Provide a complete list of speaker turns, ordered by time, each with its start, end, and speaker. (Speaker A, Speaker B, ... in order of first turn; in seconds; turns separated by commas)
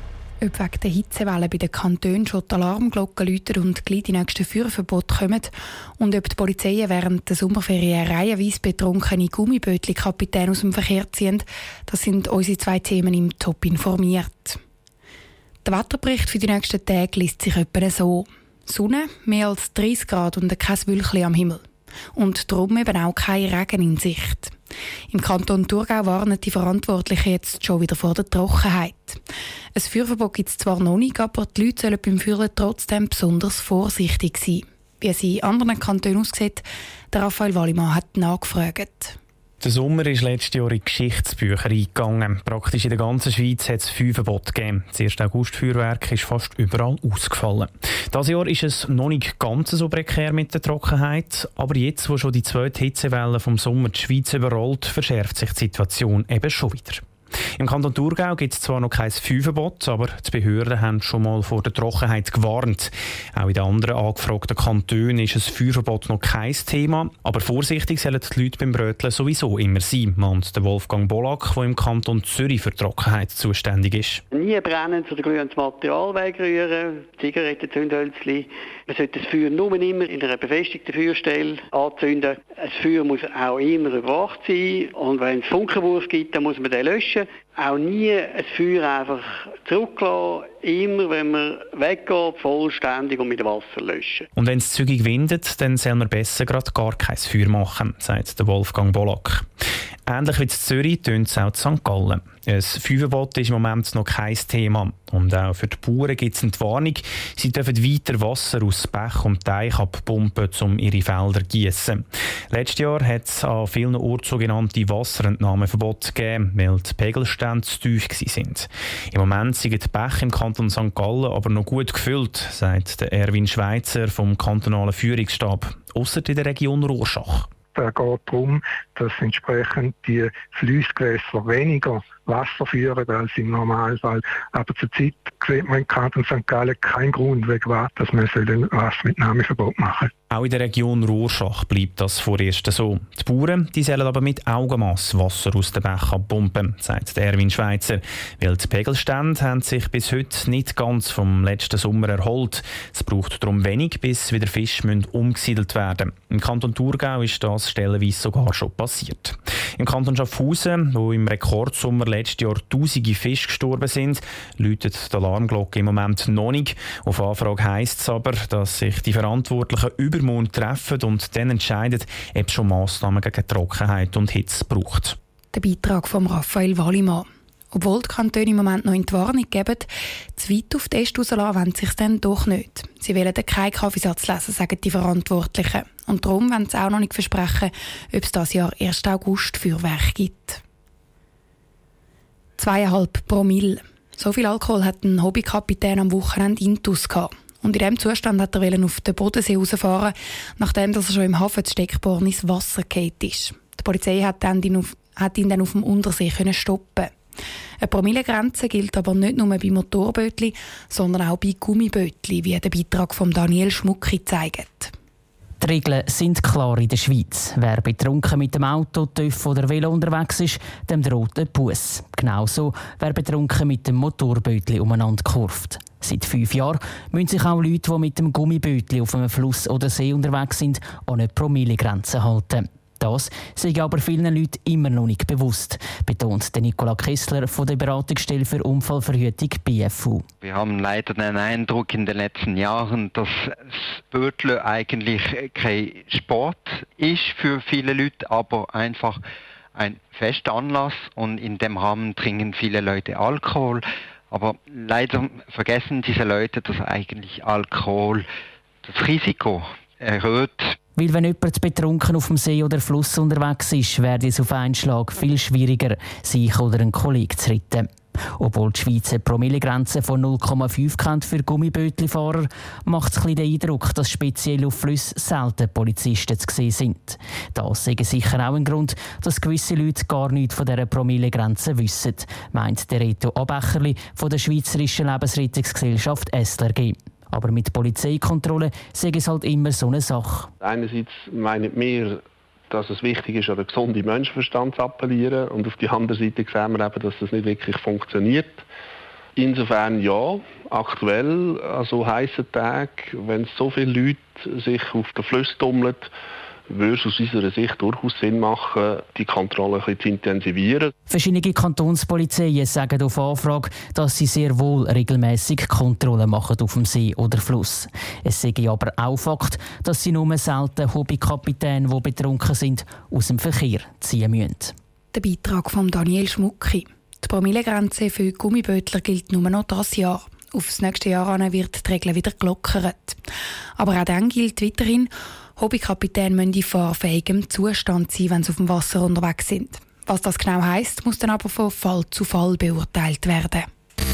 Speaker A: 0.4-14.6, Speaker A: 15.6-21.6, Speaker A: 22.1-24.5, Speaker A: 25.1-29.2, Speaker A: 29.8-39.2, Speaker B: 39.6-57.0, Speaker B: 57.6-74.2, Speaker C: 74.3-94.3, Speaker B: 94.4-99.5, Speaker B: 100.1-127.5, Speaker D: 127.8-140.1, Speaker B: 140.3-175.2, Speaker A: 175.5-190.6, Speaker A: 192.6-207.1, Speaker A: 207.8-214.9, Speaker E: 215.6-240.2, Speaker F: 240.4-249.2, Speaker F: 249.8-258.3, Speaker F: 258.9-260.8, Speaker E: 261.0-290.5, Speaker G: 290.6-298.6, Speaker G: 299.4-306.1, Speaker G: 306.7-310.9, Speaker E: 311.1-324.7, Speaker A: 325.1-333.2, Speaker A: 333.8-343.7